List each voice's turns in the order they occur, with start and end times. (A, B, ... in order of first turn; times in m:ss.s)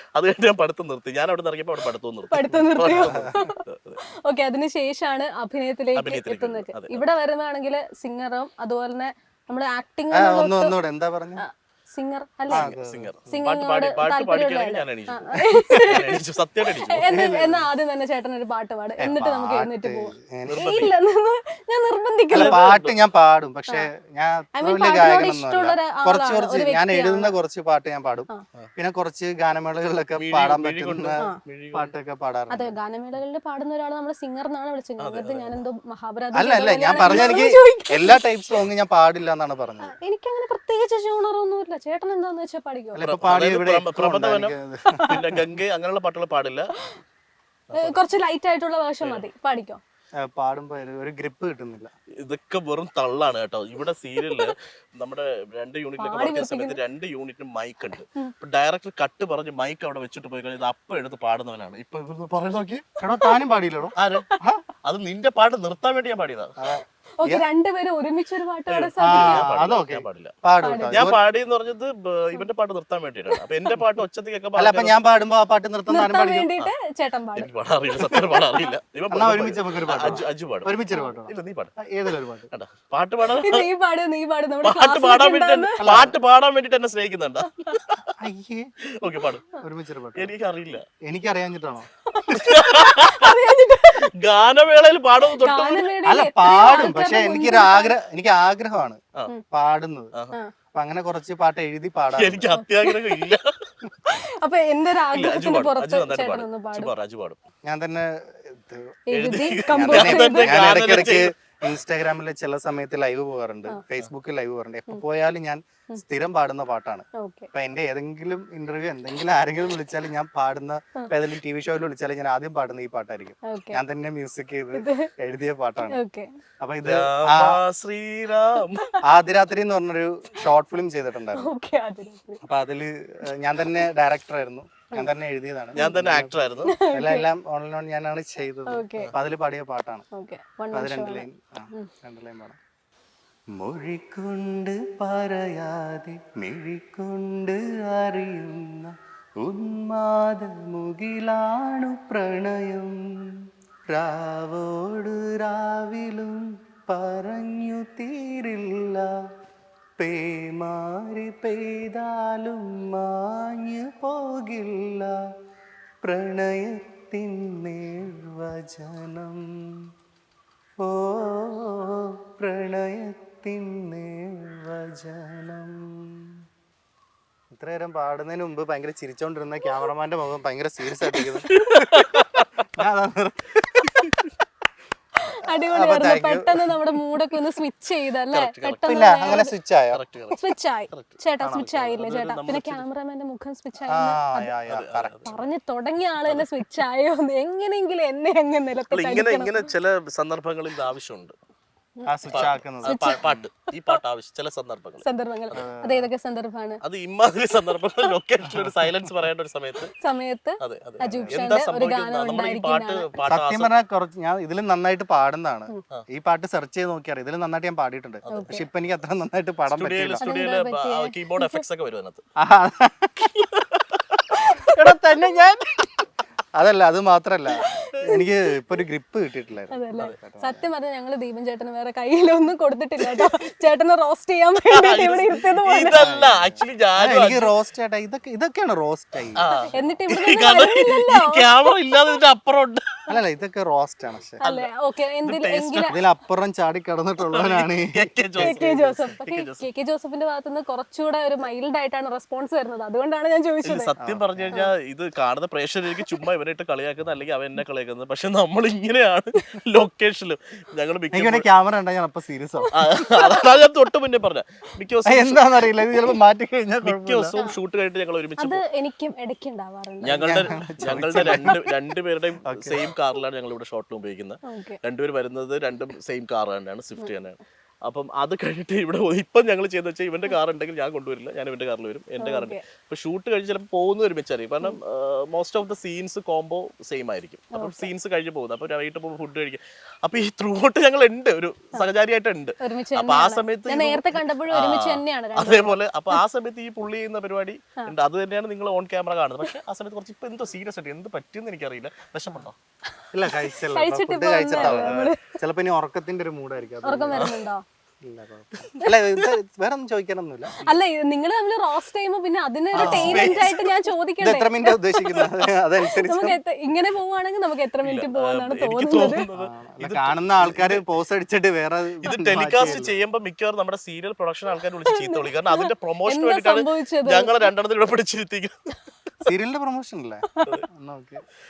0:00.2-0:04.0 A
0:02.3-0:03.6 B
0:02.8-0:03.4 C
0:04.2-0:10.8 B
0:06.0-0:07.0 A
0:10.1-0:11.4 C
0:11.4-0:12.8 B
0:12.5-0:17.1 A
0:12.5-0:13.4 C
0:13.3-0:16.2 B
0:16.8-0:22.7 B
0:17.0-0:17.7 C
0:19.0-0:20.7 C
0:20.5-0:20.9 A
0:22.3-0:23.1 A
0:22.3-0:32.7 C
0:24.6-0:27.4 B
0:30.2-0:32.0 A
0:32.5-0:38.6 B
0:35.0-0:35.6 A
0:36.3-0:39.9 C
0:37.0-0:37.3 A
0:39.8-0:43.0 B
0:42.9-0:45.4 C
0:43.0-0:44.5 A
0:45.1-0:46.7 A
0:47.7-0:48.0 A
0:47.8-0:49.8 B
0:49.0-0:49.3 A
0:50.2-0:51.9 C
0:52.2-1:02.9 A
0:54.2-0:54.5 B
0:56.0-0:56.8 B
1:03.0-1:04.6 C
1:03.1-1:03.6 B
1:04.0-1:04.3 A
1:04.8-1:06.5 A
1:06.6-1:07.4 C
1:07.2-1:09.4 B
1:08.7-1:10.3 A
1:09.0-1:11.2 C
1:10.6-1:11.1 B
1:10.9-1:15.0 A
1:13.3-1:13.8 B
1:14.6-1:16.5 C
1:15.9-1:18.7 B
1:17.4-1:21.8 A
1:19.1-1:22.5 C
1:22.5-1:23.7 A
1:23.4-1:25.8 B
1:24.6-1:28.1 A
1:25.8-1:26.2 C
1:28.2-1:28.7 C
1:29.0-1:29.5 A
1:29.6-1:30.3 C
1:30.2-1:30.8 A
1:31.0-1:32.6 C
1:32.1-1:34.0 B
1:32.3-1:33.4 A
1:34.2-1:35.9 A
1:35.3-1:38.0 B
1:36.0-1:39.0 C
1:39.5-1:40.1 C
1:40.8-1:42.5 C
1:42.2-1:43.5 A
1:42.5-1:43.2 B
1:44.1-1:46.9 B
1:45.1-1:47.4 A
1:47.6-1:49.0 C
1:49.1-1:50.6 B
1:49.1-1:51.3 A
1:49.7-2:06.0 C
1:57.2-1:57.5 B
2:03.5-2:03.8 B
2:04.7-2:05.1 B
2:05.9-2:06.3 B
2:06.6-2:07.6 C
2:06.8-2:08.9 A
2:08.7-2:09.0 B
2:09.0-2:11.5 C
2:11.4-2:12.4 B
2:12.4-2:20.0 C
2:15.8-2:16.1 B
2:15.8-2:16.8 A
2:16.6-2:17.3 B
2:18.7-2:19.1 B
2:20.1-2:21.9 B
2:20.7-2:22.6 C
2:23.6-2:33.0 C
2:33.9-2:39.1 C
2:40.0-2:45.2 C
2:46.0-2:49.5 C
2:50.8-2:56.4 C
2:57.5-3:02.0 C
3:01.2-3:02.7 A
3:02.7-3:04.3 C
3:03.9-3:04.2 A
3:05.2-3:09.5 B
3:05.6-3:06.8 C
3:08.3-3:12.9 A
3:08.9-3:10.0 C
3:10.3-3:14.6 B
3:11.4-3:11.7 C
3:13.9-3:15.4 C
3:14.7-3:15.3 A
3:15.2-3:19.7 B
3:18.9-3:21.4 A
3:22.0-3:24.0 B
3:22.1-3:23.5 C
3:22.3-3:25.6 A
3:25.0-3:26.8 B
3:25.6-3:26.1 C
3:26.8-3:30.0 A
3:28.5-3:28.8 C
3:30.0-3:33.2 B
3:30.6-3:33.7 A
3:31.1-3:31.5 C
3:33.2-3:40.2 C
3:38.2-3:38.6 A
3:38.3-3:38.7 B
3:39.7-3:42.2 A
3:40.2-3:41.6 B
3:42.4-3:43.3 C
3:43.4-3:44.2 A
3:44.3-3:44.7 B
3:44.8-3:46.0 C
3:46.6-3:50.6 C
3:47.5-3:48.3 B
3:49.7-3:56.0 B
3:53.0-3:53.3 A
3:54.7-3:57.5 A
3:55.9-3:59.5 C
3:59.4-4:02.9 A
3:59.5-4:01.5 B
4:03.1-4:04.4 C
4:04.4-4:06.0 B
4:04.4-4:04.7 A
4:05.2-4:06.0 A
4:05.9-4:09.0 C
4:07.2-4:09.7 A
4:08.4-4:13.9 B
4:13.6-4:21.5 A
4:14.0-4:14.6 C
4:19.4-4:19.6 B
4:21.1-4:22.9 C
4:22.7-4:23.4 B
4:22.7-4:25.9 A
4:25.0-4:27.4 C
4:26.8-4:28.6 A
4:28.4-4:30.6 B
4:30.0-5:02.6 A
4:30.1-4:31.7 C
4:31.2-4:31.5 B
4:32.5-4:32.8 C
4:34.5-4:34.8 B
4:42.2-4:42.6 B
4:47.5-4:47.9 B
4:52.6-4:56.2 B
5:03.1-5:07.3 C
5:03.3-5:05.2 B
5:04.6-5:05.1 A
5:06.8-5:07.6 B
5:07.1-5:07.4 A
5:08.0-5:10.5 C
5:08.7-5:09.3 A
5:10.6-5:14.8 B
5:12.7-5:13.7 A
5:12.8-5:13.6 C
5:14.2-5:16.4 C
5:15.2-5:15.5 A
5:16.0-5:19.3 B
5:17.8-5:20.8 A
5:19.3-5:23.0 C
5:22.0-5:28.6 A
5:24.9-5:27.5 B
5:29.2-5:30.2 C
5:30.7-5:31.2 C